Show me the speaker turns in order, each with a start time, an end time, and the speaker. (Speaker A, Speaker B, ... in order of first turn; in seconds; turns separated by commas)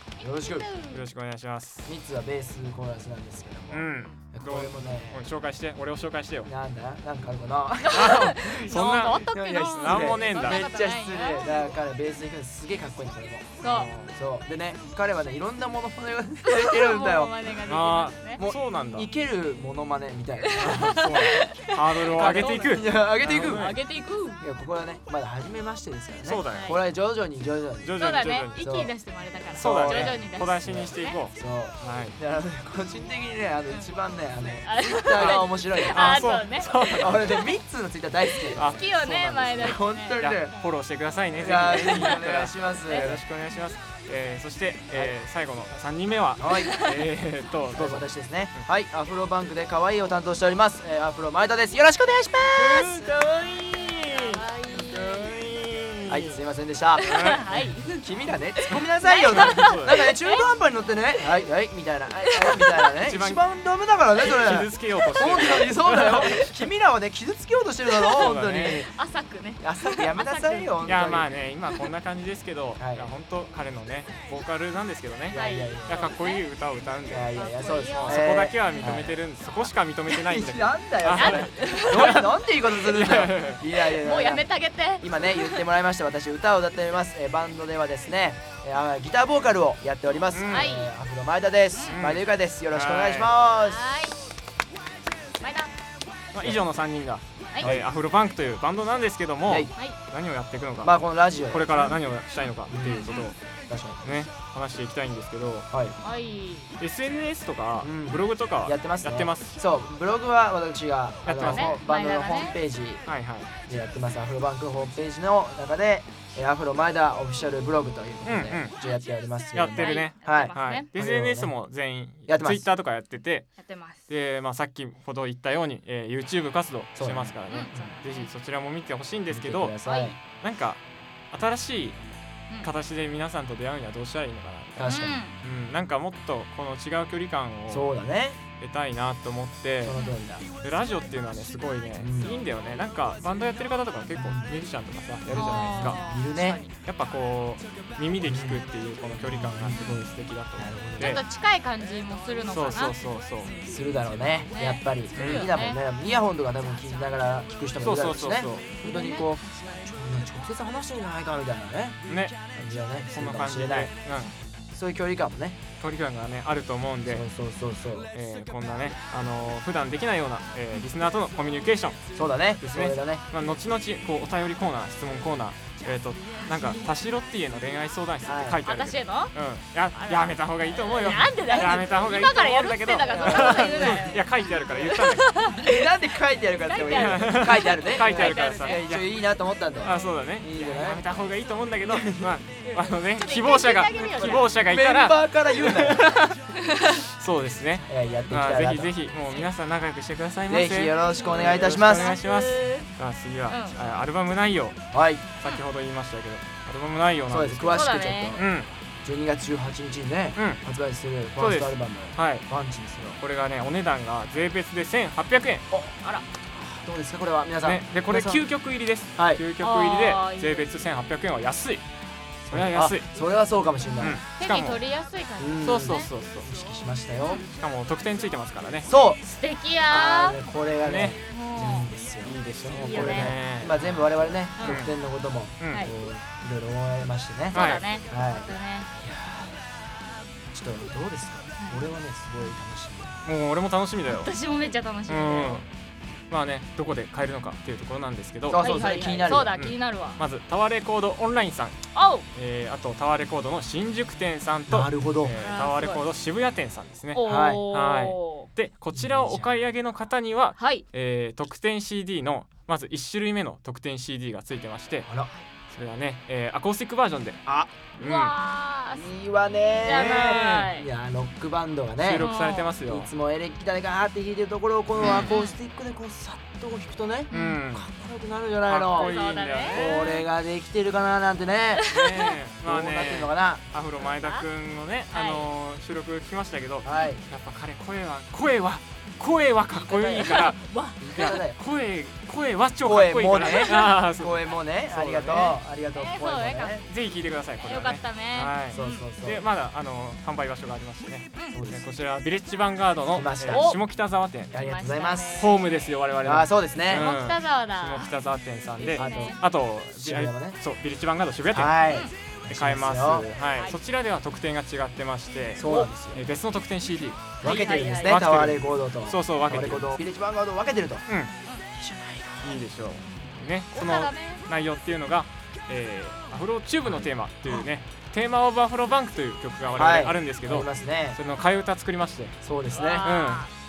Speaker A: 0.2-1.0, Speaker B: 0.2-0.7, Speaker C: 0.9-1.9, Speaker B: 1.9-5.2, Speaker C: 3.7-6.5, Speaker B: 6.5-17.3, Speaker A: 7.9-11.7, Speaker C: 7.9-10.7, Speaker A: 13.6-13.9, Speaker C: 13.6-14.1, Speaker A: 16.4-18.4, Speaker C: 17.6-19.1, Speaker B: 18.4-21.0, Speaker A: 20.4-24.4, Speaker C: 20.6-23.8, Speaker B: 22.1-23.8, Speaker B: 24.4-28.9, Speaker C: 26.2-26.8, Speaker A: 26.5-26.8, Speaker C: 27.8-28.6, Speaker A: 28.0-31.2, Speaker B: 29.5-36.3, Speaker C: 29.6-32.2, Speaker A: 34.6-37.5, Speaker C: 35.2-37.4, Speaker B: 37.0-38.8, Speaker A: 38.3-40.3, Speaker C: 38.5-48.6, Speaker B: 39.6-40.5, Speaker B: 41.4-43.2, Speaker A: 41.8-42.2, Speaker A: 42.9-43.2, Speaker B: 46.4-46.8, Speaker A: 46.6-47.0, Speaker B: 47.7-53.0, Speaker C: 52.5-56.4, Speaker A: 54.0-55.3, Speaker B: 56.1-68.9, Speaker A: 57.0-58.0, Speaker C: 57.0-57.5, Speaker A: 58.7-60.5, Speaker C: 58.7-60.1, Speaker A: 62.2-63.0, Speaker C: 63.0-63.4, Speaker C: 64.2-66.5, Speaker A: 67.9-70.9, Speaker C: 68.1-68.9, Speaker B: 69.6-71.3, Speaker C: 70.8-77.3, Speaker B: 72.8-73.1, Speaker B: 75.3-76.1, Speaker A: 75.3-76.4, Speaker B: 77.1-79.2, Speaker A: 77.3-79.7, Speaker C: 78.0-83.6, Speaker B: 80.3-84.5, Speaker A: 81.1-82.2, Speaker A: 83.9-85.6, Speaker B: 85.0-93.8, Speaker C: 90.3-90.7, Speaker A: 90.5-90.9, Speaker C: 91.9-93.4, Speaker A: 93.6-94.2, Speaker A: 95.4-95.7, Speaker C: 96.3-100.9, Speaker B: 97.6-97.9, Speaker B: 99.5-99.7, Speaker B: 100.8-102.0, Speaker C: 101.5-103.3, Speaker B: 102.7-103.1, Speaker A: 102.9-103.3, Speaker B: 103.7-104.0, Speaker C: 104.0-105.7, Speaker B: 105.7-106.0, Speaker A: 106.0-106.7, Speaker C: 106.8-109.6, Speaker B: 107.8-113.0, Speaker C: 111.2-111.8, Speaker A: 111.4-112.5, Speaker C: 113.1-113.5, Speaker B: 113.7-121.5, Speaker C: 118.2-118.8, Speaker C: 119.5-123.5, Speaker A: 119.6-120.9, Speaker B: 122.3-122.7, Speaker A: 123.6-124.1, Speaker C: 124.1-129.7, Speaker B: 127.0-127.8, Speaker A: 127.5-128.3, Speaker B: 129.3-130.2, Speaker A: 129.8-130.2, Speaker C: 130.4-130.8, Speaker C: 131.3-132.0, Speaker C: 132.6-134.8, Speaker B: 134.8-135.2, Speaker A: 134.8-135.4, Speaker C: 135.4-137.9, Speaker B: 137.7-138.4, Speaker C: 138.6-139.9, Speaker B: 139.8-140.6, Speaker C: 140.6-146.0, Speaker B: 142.0-142.3, Speaker B: 144.1-144.5, Speaker B: 145.2-146.6, Speaker A: 145.3-146.7, Speaker C: 146.8-151.2, Speaker B: 148.2-148.7, Speaker B: 149.2-150.0, Speaker A: 149.7-150.0, Speaker B: 150.6-151.2, Speaker A: 151.0-153.7, Speaker C: 152.5-153.5, Speaker B: 153.6-162.0, Speaker A: 154.5-156.2, Speaker C: 155.2-155.5, Speaker C: 157.8-158.8, Speaker A: 158.8-159.3, Speaker C: 162.1-162.5, Speaker B: 162.5-163.9, Speaker C: 163.0-164.3, Speaker B: 164.7-165.6, Speaker C: 165.8-167.2, Speaker B: 167.1-168.1, Speaker C: 168.1-172.0, Speaker B: 172.1-173.2, Speaker C: 172.6-185.3, Speaker A: 176.4-176.9, Speaker B: 178.2-178.6, Speaker A: 178.6-179.3, Speaker A: 179.9-185.9, Speaker B: 181.5-181.8, Speaker B: 183.2-184.1, Speaker B: 185.5-191.0, Speaker A: 186.6-188.8, Speaker C: 186.8-189.0, Speaker C: 189.8-196.3, Speaker A: 189.8-190.1, Speaker B: 191.9-192.3, Speaker A: 192.6-194.5, Speaker B: 194.0-196.1, Speaker A: 196.5-197.0, Speaker C: 197.2-204.8, Speaker B: 197.8-198.9, Speaker B: 200.5-202.2, Speaker A: 201.0-202.9, Speaker A: 203.5-203.8, Speaker B: 204.9-205.2, Speaker C: 205.4-207.8, Speaker B: 207.3-208.5, Speaker A: 207.7-208.3, Speaker C: 208.3-208.7, Speaker B: 209.0-213.2, Speaker C: 210.3-210.6, Speaker C: 211.4-212.5, Speaker C: 213.2-215.6, Speaker B: 215.7-216.0, Speaker B: 216.5-218.4, Speaker C: 217.6-221.8, Speaker B: 219.2-219.4, Speaker A: 219.6-220.7, Speaker B: 222.4-224.2, Speaker C: 222.5-223.1, Speaker A: 223.8-226.1, Speaker C: 224.0-224.8, Speaker B: 225.4-227.4, Speaker C: 225.6-226.5, Speaker C: 227.5-228.9, Speaker B: 228.8-229.2, Speaker A: 229.2-230.4, Speaker B: 229.9-239.6, Speaker C: 230.8-231.2, Speaker A: 231.3-231.9, Speaker C: 232.2-234.9, Speaker A: 232.7-233.3, Speaker A: 234.6-234.8, Speaker C: 235.6-235.8, Speaker A: 237.5-238.9, Speaker C: 237.5-237.8, Speaker B: 240.5-243.2, Speaker C: 243.2-244.3, Speaker A: 244.1-245.7, Speaker C: 245.1-245.7, Speaker C: 246.3-248.7, Speaker B: 248.5-249.5, Speaker A: 248.6-250.2, Speaker C: 249.2-251.8, Speaker A: 251.9-252.3, Speaker C: 252.3-265.1, Speaker B: 254.7-255.4, Speaker A: 255.4-256.0, Speaker A: 257.1-258.5, Speaker B: 257.2-257.7, Speaker B: 258.9-259.6, Speaker A: 260.6-260.8, Speaker B: 265.0-265.3, Speaker C: 265.7-267.4, Speaker B: 267.4-267.7, Speaker C: 268.0-268.3, Speaker A: 268.0-270.9, Speaker B: 268.9-272.3, Speaker C: 269.8-270.7, Speaker C: 272.0-273.1, Speaker A: 272.2-272.7, Speaker B: 272.9-279.1, Speaker C: 274.9-275.3, Speaker A: 275.0-275.6, Speaker A: 277.3-277.6, Speaker C: 277.3-277.9, Speaker C: 278.6-280.1, Speaker A: 278.9-280.2, Speaker B: 279.7-281.9, Speaker A: 281.8-282.3, Speaker C: 281.9-290.6, Speaker B: 282.6-283.6, Speaker A: 284.0-284.4, Speaker A: 285.1-285.5, Speaker B: 286.8-287.2, Speaker B: 289.8-290.2, Speaker A: 289.9-291.4, Speaker B: 291.0-291.6, Speaker C: 291.1-295.6, Speaker B: 292.8-296.9, Speaker A: 293.3-294.0, Speaker A: 295.9-296.9, Speaker C: 296.9-304.5, Speaker A: 297.6-299.1, Speaker B: 298.7-299.4, Speaker B: 301.5-301.8, Speaker B: 303.1-303.8, Speaker A: 303.5-303.8, Speaker B: 304.5-305.5, Speaker A: 304.5-305.9, Speaker C: 305.4-311.8, Speaker B: 306.2-307.1, Speaker A: 306.9-308.1, Speaker A: 308.8-309.4, Speaker B: 308.9-309.4, Speaker B: 309.9-310.6, Speaker B: 311.5-313.3, Speaker C: 312.5-320.0, Speaker A: 313.5-313.8, Speaker B: 315.5-316.2, Speaker B: 317.4-321.0, Speaker A: 317.4-318.2, Speaker B: 321.7-322.6, Speaker C: 322.4-332.4, Speaker A: 323.7-324.5, Speaker B: 326.9-327.6, Speaker B: 329.7-331.2, Speaker B: 332.4-333.1, Speaker A: 332.7-333.5, Speaker C: 333.0-333.5